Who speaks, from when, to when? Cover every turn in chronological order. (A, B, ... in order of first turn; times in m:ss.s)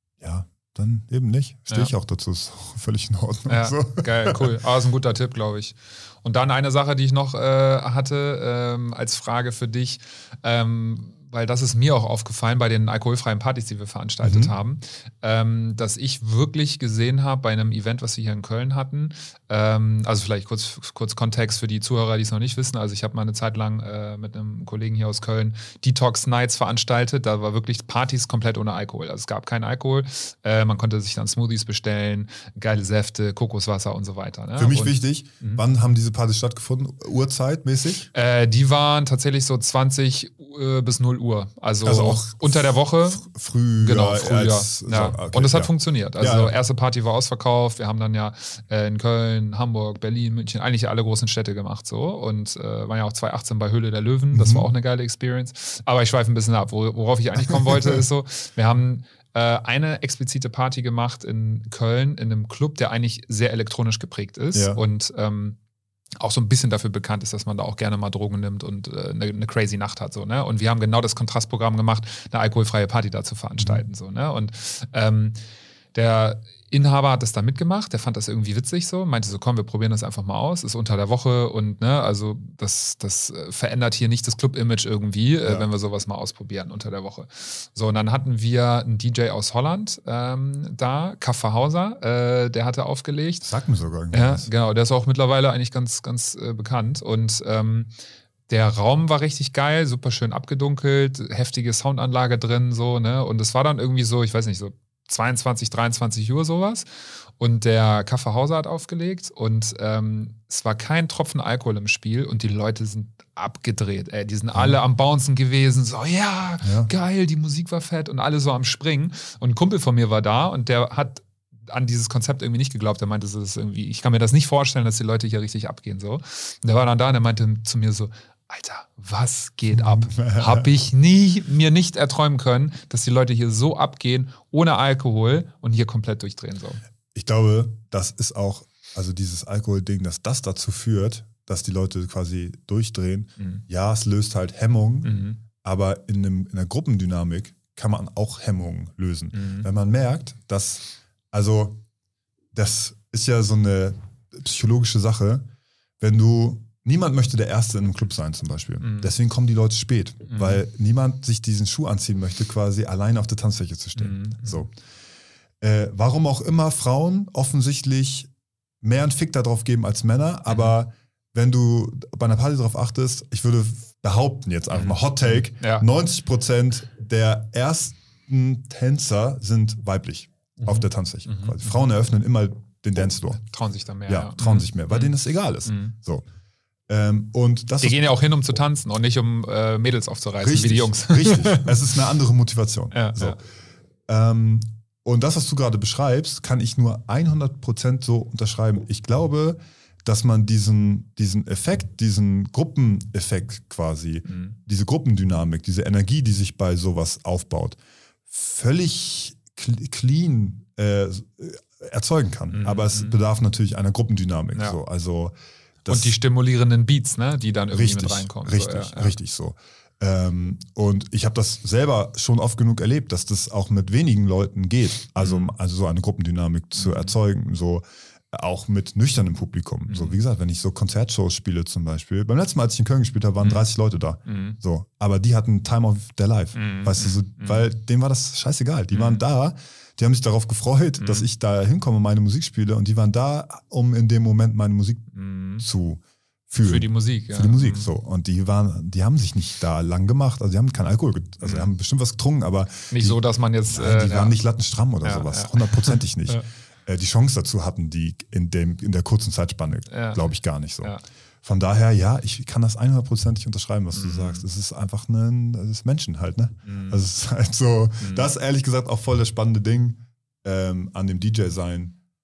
0:00.2-0:04.5 A
0:03.5-0:35.6 B
0:14.2-0:14.5 A
0:34.6-0:38.1 A
0:38.1-0:43.2 B
0:41.8-0:46.5 A
0:43.8-1:05.6 B
0:54.3-0:54.7 A
0:57.6-0:58.0 A
1:04.5-1:04.8 A
1:06.2-1:15.4 B
1:13.6-1:13.8 A
1:15.9-1:33.5 B
1:33.4-1:34.5 A
1:34.1-1:37.9 B
1:38.5-1:46.8 B
1:47.4-2:16.8 B
1:54.5-1:54.8 A
1:56.6-1:56.9 A
2:09.7-2:10.7 A
2:17.2-2:31.8 A
2:25.0-2:25.4 B
2:29.3-2:29.7 B
2:32.5-2:35.5 A
2:36.0-2:44.7 A
2:38.8-2:39.1 B
2:40.3-2:40.6 B
2:44.0-2:44.6 B
2:45.6-2:48.3 A
2:48.8-3:03.4 A
2:50.5-2:50.7 B
2:54.7-2:55.8 B
3:00.6-3:01.8 B
3:03.4-3:05.1 B
3:04.1-3:06.2 A
3:05.6-3:06.0 B
3:06.9-3:08.1 A
3:07.8-3:11.7 B
3:10.4-3:13.4 A
3:12.9-3:13.4 B
3:14.1-3:27.8 A
3:24.3-3:24.5 B
3:28.3-3:36.2 A
3:32.5-3:33.2 B
3:35.9-3:39.2 B
3:37.7-4:05.1 A
3:45.2-3:45.5 B
3:46.8-3:47.1 B
3:49.9-3:50.2 B
3:53.4-3:53.7 B
3:54.2-3:54.6 B
3:56.6-3:57.6 B
3:58.9-3:59.2 B
4:01.0-4:01.3 B
4:05.1-4:05.6 B
4:05.6-4:32.0 A
4:06.6-4:07.9 B
4:11.4-4:11.7 B
4:12.9-4:14.3 B
4:15.0-4:16.4 B
4:19.9-4:20.2 B
4:23.9-4:24.4 B
4:26.6-4:27.0 B
4:28.0-4:28.3 B